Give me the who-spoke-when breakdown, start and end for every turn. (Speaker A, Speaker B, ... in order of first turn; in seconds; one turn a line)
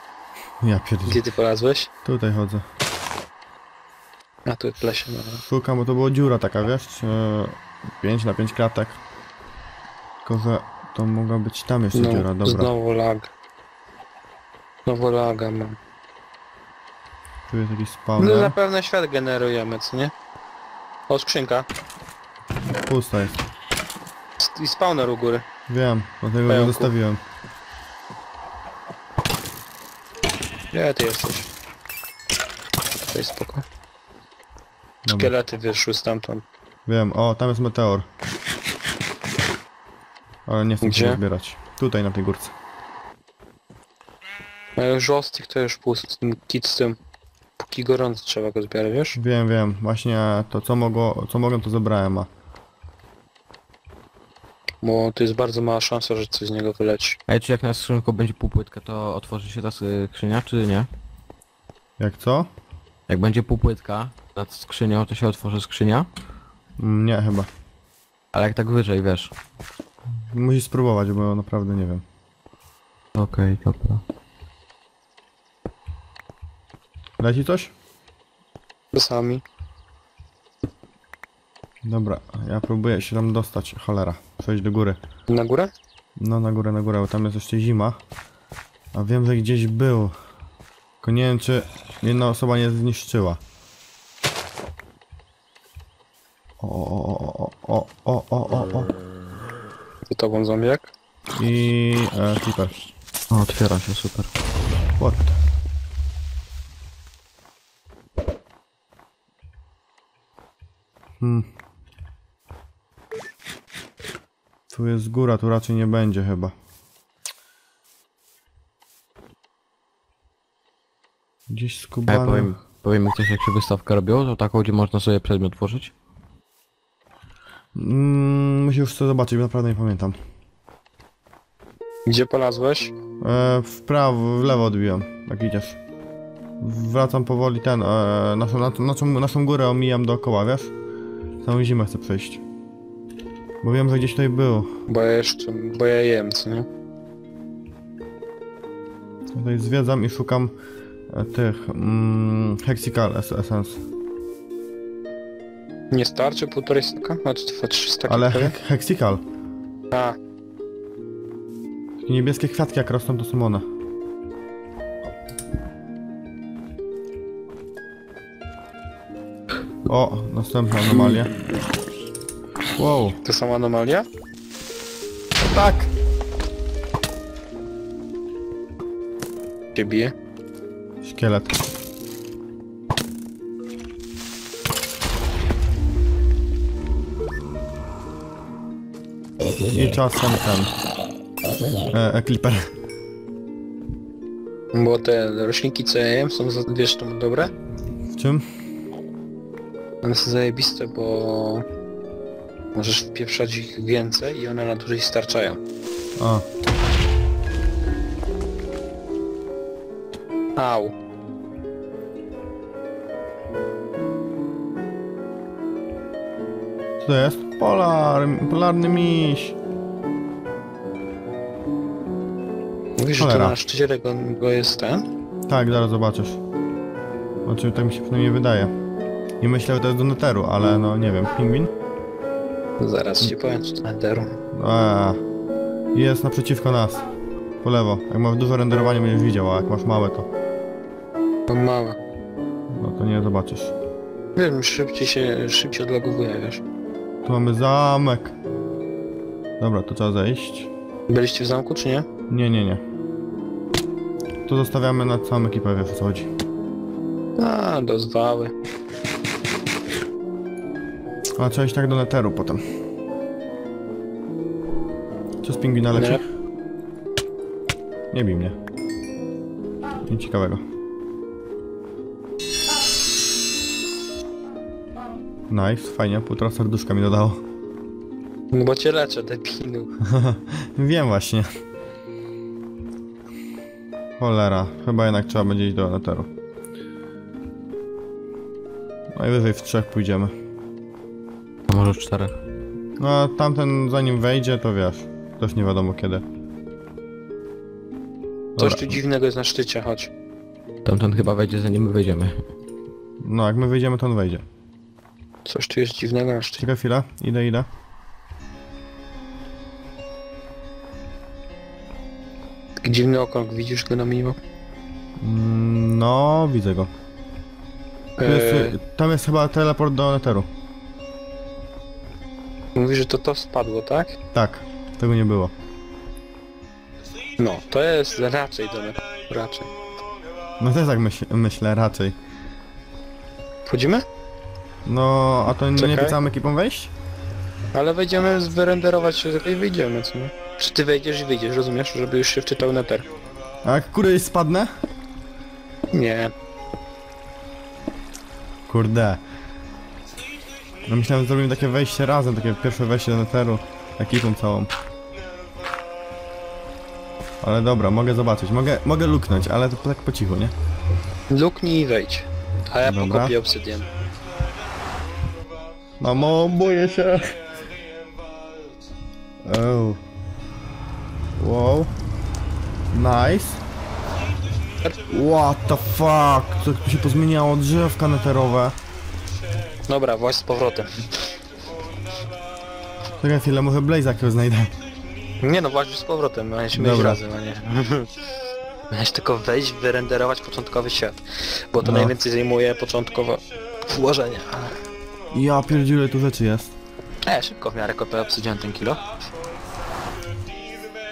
Speaker A: 0.6-1.2
Speaker B: 1.1-1.9
Speaker A: 2.0-2.6
Speaker B: 4.5-5.4
Speaker A: 5.5-9.0
Speaker A: 10.2-12.7
Speaker B: 11.9-13.3
Speaker B: 14.8-15.8
Speaker A: 17.5-18.5
Speaker B: 18.2-20.1
Speaker B: 21.1-21.7
Speaker A: 22.9-23.4
Speaker B: 24.4-25.4
Speaker A: 25.7-27.2
Speaker B: 26.5-26.9
Speaker B: 30.7-31.5
Speaker B: 33.1-33.6
Speaker A: 35.0-35.3
Speaker B: 35.1-36.4
Speaker A: 36.9-38.1
Speaker A: 40.5-42.5
Speaker B: 40.8-41.2
Speaker B: 44.8-47.0
Speaker B: 47.6-49.2
Speaker A: 49.1-52.3
Speaker B: 54.8-57.2
Speaker C: 57.3-60.9
Speaker A: 62.0-62.5
Speaker C: 63.1-66.1
Speaker A: 66.8-67.5
Speaker C: 68.3-69.3
Speaker A: 70.1-72.0
Speaker C: 73.2-74.0
Speaker A: 77.2-77.7
Speaker B: 78.9-79.4
Speaker A: 81.8-85.0
Speaker B: 85.3-85.7
Speaker A: 86.2-88.0
Speaker A: 88.9-90.2
Speaker A: 91.0-93.4
Speaker A: 96.6-98.9
Speaker B: 100.1-100.9
Speaker A: 101.3-102.7
Speaker C: 103.3-104.3
Speaker A: 105.0-105.3
Speaker A: 111.2-111.5
Speaker A: 114.7-116.5
Speaker A: 121.5-122.5
Speaker C: 122.1-125.9
Speaker A: 127.7-130.2
Speaker B: 132.1-132.9
Speaker A: 133.2-135.8
Speaker A: 136.6-140.7
Speaker A: 141.4-142.4
Speaker A: 143.6-144.7
Speaker B: 144.9-146.7
Speaker A: 149.3-150.5
Speaker A: 151.1-153.8
Speaker B: 155.9-158.6
Speaker A: 158.1-159.2
Speaker B: 159.9-160.2
Speaker A: 162.0-163.7
Speaker A: 169.8-171.3
Speaker A: 172.8-173.2
Speaker B: 173.2-174.1
Speaker A: 175.3-175.9
Speaker B: 179.7-180.1
Speaker A: 181.0-181.6
Speaker A: 189.7-190.7
Speaker A: 191.9-192.6
Speaker B: 194.7-197.5
Speaker A: 198.1-198.4
Speaker B: 200.0-201.6
Speaker B: 202.7-205.6
Speaker A: 206.2-206.4
Speaker B: 210.6-210.9
Speaker A: 217.0-219.6
Speaker B: 223.0-225.1
Speaker A: 223.2-223.6
Speaker A: 225.5-226.4
Speaker A: 227.4-228.7
Speaker A: 229.4-231.7
Speaker B: 232.8-234.3
Speaker A: 234.5-235.2
Speaker A: 235.9-237.1
Speaker A: 237.6-240.3
Speaker B: 241.5-242.0
Speaker A: 242.7-243.7
Speaker B: 244.3-246.6
Speaker A: 247.2-248.3
Speaker A: 249.6-250.7
Speaker B: 251.1-252.1
Speaker A: 252.3-252.8
Speaker A: 254.4-256.3
Speaker B: 257.4-258.5
Speaker A: 261.4-262.6
Speaker A: 265.4-266.2
Speaker B: 265.9-266.2
Speaker A: 268.1-268.6
Speaker A: 270.1-270.6
Speaker A: 275.5-277.4
Speaker B: 278.5-279.9
Speaker A: 280.0-281.5
Speaker A: 284.2-286.3
Speaker A: 289.1-290.3
Speaker C: 291.7-292.4
Speaker A: 293.0-296.2
Speaker A: 298.6-299.0
Speaker B: 298.6-300.1
Speaker C: 300.8-302.4
Speaker A: 303.2-304.4
Speaker B: 305.4-306.7
Speaker A: 306.6-307.7
Speaker B: 312.8-314.4
Speaker A: 315.2-316.9
Speaker B: 318.2-318.8
Speaker A: 318.2-320.5
Speaker B: 322.8-324.2
Speaker A: 324.3-325.5
Speaker B: 327.4-329.7
Speaker A: 330.6-332.1
Speaker B: 333.6-334.0
Speaker A: 334.9-336.9
Speaker B: 335.8-336.2
Speaker B: 337.7-343.1
Speaker A: 343.6-344.7
Speaker B: 345.9-346.3
Speaker A: 348.7-349.2
Speaker A: 350.9-354.7
Speaker A: 357.4-360.5
Speaker B: 361.3-363.9
Speaker A: 362.8-363.4
Speaker A: 366.0-367.4
Speaker A: 369.4-370.0
Speaker A: 371.4-371.9
Speaker A: 372.9-373.6
Speaker A: 375.1-378.8
Speaker B: 379.9-381.1
Speaker A: 383.2-384.7
Speaker B: 385.4-388.1
Speaker A: 386.7-387.2
Speaker B: 388.9-394.8
Speaker A: 391.8-392.1
Speaker A: 395.3-396.7
Speaker B: 397.2-399.1